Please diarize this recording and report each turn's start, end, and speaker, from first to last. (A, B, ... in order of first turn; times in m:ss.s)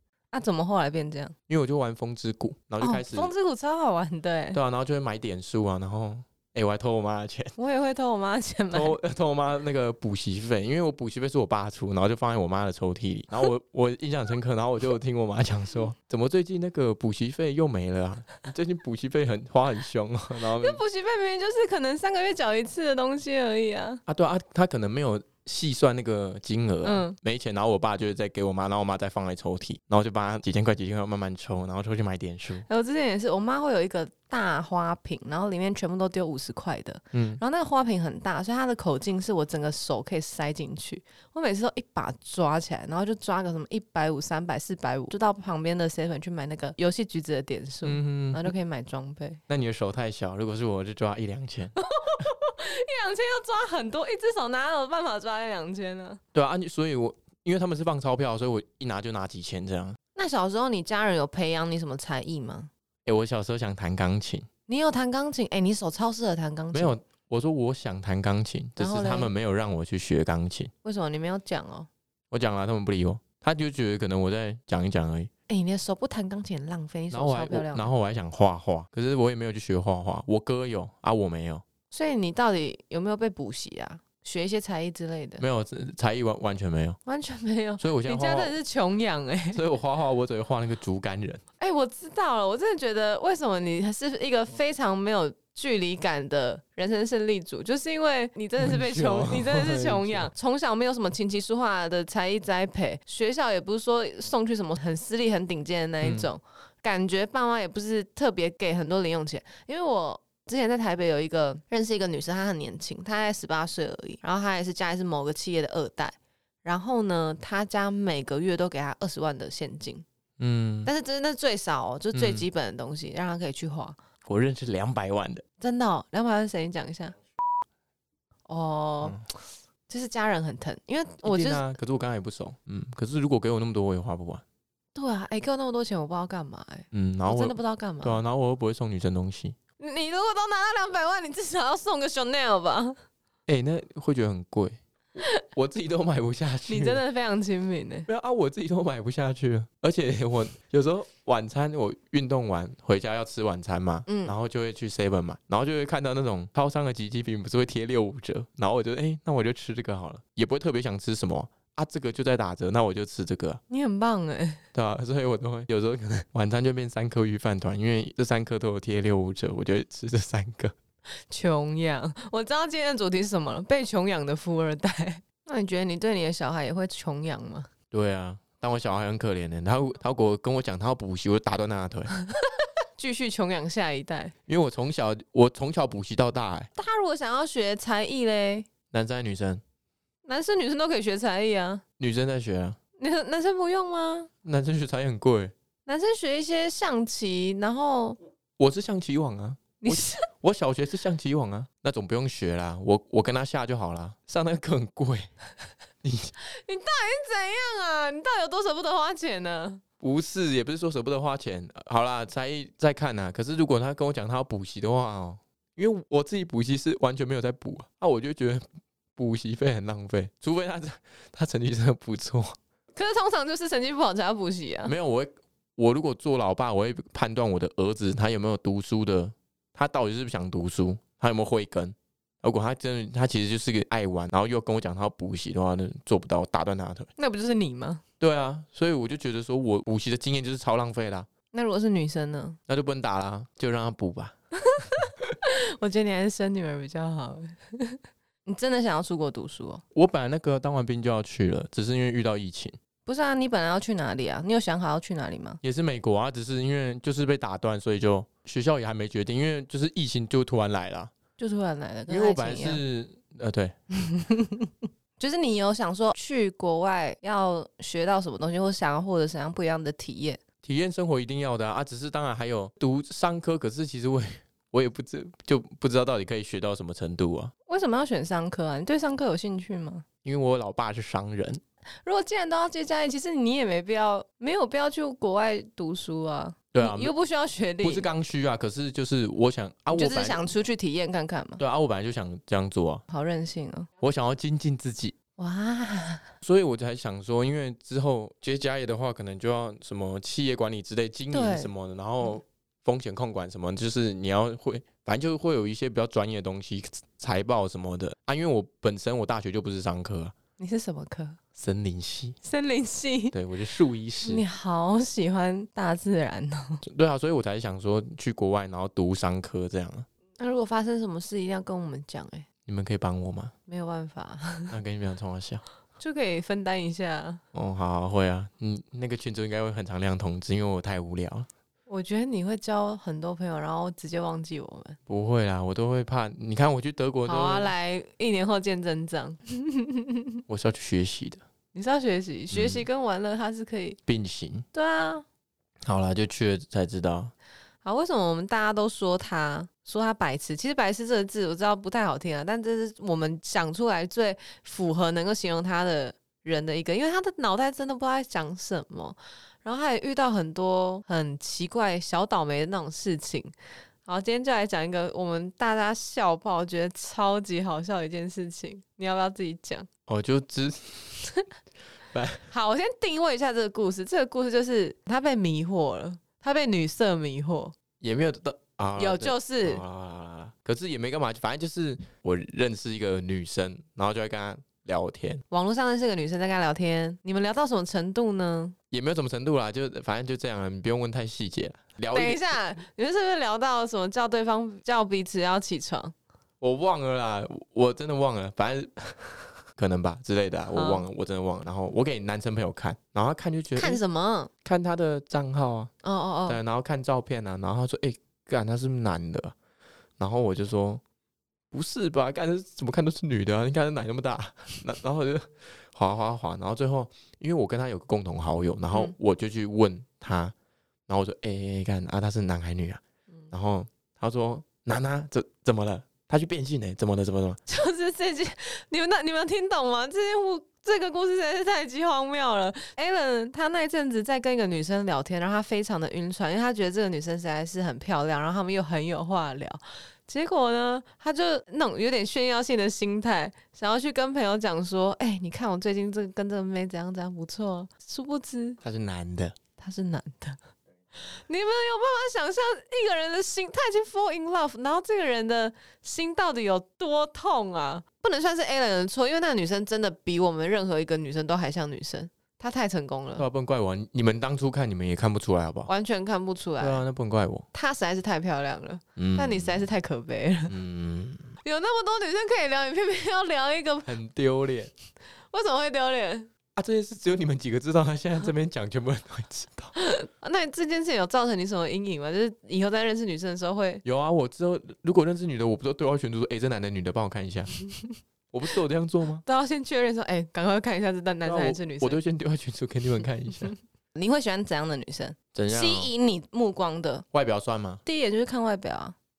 0:00.3-0:01.3 A
0:01.5-0:03.3 B
0:02.8-0:04.6 A
0:04.5-0:07.6 B
0:07.6-0:09.0 A
0:08.7-0:20.8 B
0:20.5-0:24.0 A
0:24.1-0:32.7 B
0:26.8-0:27.2 A
0:32.7-0:49.4 A
0:37.1-0:37.4 B
0:47.8-0:48.5 B
0:49.5-0:51.8 B
0:51.8-0:56.2 A
0:56.3-1:00.0 B
1:00.2-1:02.7 A
1:03.1-1:04.5 B
1:04.7-1:07.0 A
1:06.7-1:10.7 B
1:08.8-1:09.3 A
1:10.8-1:11.9 A
1:12.3-1:15.3 B
1:15.5-1:17.9 A
1:17.1-1:21.6 B
1:21.9-1:25.4 A
1:25.4-1:27.0 B
1:27.1-1:29.6 A
1:27.8-1:28.6 B
1:29.5-1:31.4 B
1:31.6-2:00.0 A
1:38.6-1:40.3 B
1:46.0-1:46.3 B
2:00.4-2:00.9 B
2:00.9-2:04.0 A
2:02.1-2:02.5 B
2:04.2-2:05.4 B
2:05.6-2:07.2 A
2:08.5-2:09.2 A
2:09.9-2:11.7 A
2:11.2-2:14.4 B
2:15.0-2:18.2 A
2:16.9-2:19.6 B
2:19.8-2:23.0 A
2:23.5-2:27.0 B
2:26.7-2:28.1 A
2:28.1-2:43.6 B
2:34.1-2:34.4 A
2:43.7-2:44.6 A
2:44.7-2:50.8 B
2:51.3-2:57.7 A
2:57.9-3:02.1 B
3:03.0-3:04.3 A
3:04.5-3:06.7 B
3:06.8-3:08.7 A
3:08.9-3:09.6 B
3:10.3-3:11.8 A
3:12.0-3:12.8 B
3:13.0-3:14.3 A
3:14.4-3:15.5 B
3:15.9-3:18.2 A
3:18.6-3:25.3 B
3:19.8-3:20.3 A
3:26.0-3:26.3 B
3:26.4-3:29.8 A
3:30.0-3:38.6 B
3:39.2-3:42.6 B
3:43.0-3:45.0 A
3:44.8-3:57.1 B
3:57.2-3:58.0 A
3:58.2-4:01.3 B
4:01.5-4:02.6 A
4:02.7-4:04.4 B
4:04.7-4:09.8 A
4:09.9-4:12.8 B
4:13.1-4:15.6 A
4:15.6-4:21.1 B
4:21.4-4:22.8 A
4:22.1-4:23.8 B
4:23.9-4:30.4 A
4:30.6-4:37.5 B
4:37.7-4:40.0 A
4:40.2-4:41.6 B
4:42.0-4:48.1 A
4:46.7-4:47.1 B
4:47.8-4:50.4 B
4:49.9-4:51.6 A
4:51.6-4:53.0 B
4:53.1-4:53.9 A
4:54.0-4:55.2 B
4:55.4-4:56.3 A
4:56.4-5:10.3 B
5:01.3-5:01.7 A
5:10.6-5:11.4 A
5:11.6-5:12.4 B
5:12.4-5:13.4 A
5:13.3-5:14.4 B
5:14.2-5:16.8 A
5:16.8-5:20.1 B
5:20.4-5:22.5 A
5:22.7-5:23.5 B
5:23.7-5:24.8 A
5:24.7-5:25.6 B
5:26.0-5:27.4 A
5:27.5-5:31.5 B
5:31.9-5:35.0 A
5:35.1-5:37.7 B
5:37.3-5:40.4 A
5:40.5-5:41.4 B
5:41.7-5:44.0 A
5:42.5-5:42.9 B
5:44.1-5:44.7 B
5:44.7-5:45.2 A
5:45.8-5:47.3 B
5:47.8-6:03.5 A
6:04.1-6:09.9 A
6:10.1-6:11.3 B
6:12.1-6:12.5 B
6:12.5-6:17.8 A
6:18.0-6:25.4 B
6:19.0-6:19.8 A
6:25.5-6:28.8 A
6:28.9-6:32.4 B
6:32.1-6:36.1 A
6:36.6-6:44.0 B
6:40.7-6:41.0 A
6:43.8-6:44.5 A
6:44.6-6:45.9 B
6:46.0-6:46.6 A
6:46.5-6:49.6 B
6:50.2-6:51.0 B
6:51.7-7:00.5 B
7:01.1-7:07.6 B
7:07.7-7:28.8 A
7:28.8-7:29.6 B
7:29.8-7:30.6 A
7:31.2-7:43.5 A
7:43.4-7:45.9 B
7:45.9-7:47.0 A
7:46.8-7:47.7 B
7:47.7-7:50.7 A
7:49.2-7:49.8 B
7:50.7-7:51.6 B
7:51.6-7:54.1 A
7:54.1-7:54.9 B
7:55.5-7:56.5 A
7:56.8-7:59.9 B
8:00.0-8:04.0 A
8:04.0-8:07.7 B
8:08.5-8:09.4 B
8:09.4-8:12.2 A
8:11.4-8:13.7 B
8:14.2-8:17.2 A
8:15.5-8:16.1 B
8:17.3-8:18.0 B
8:18.0-8:19.2 A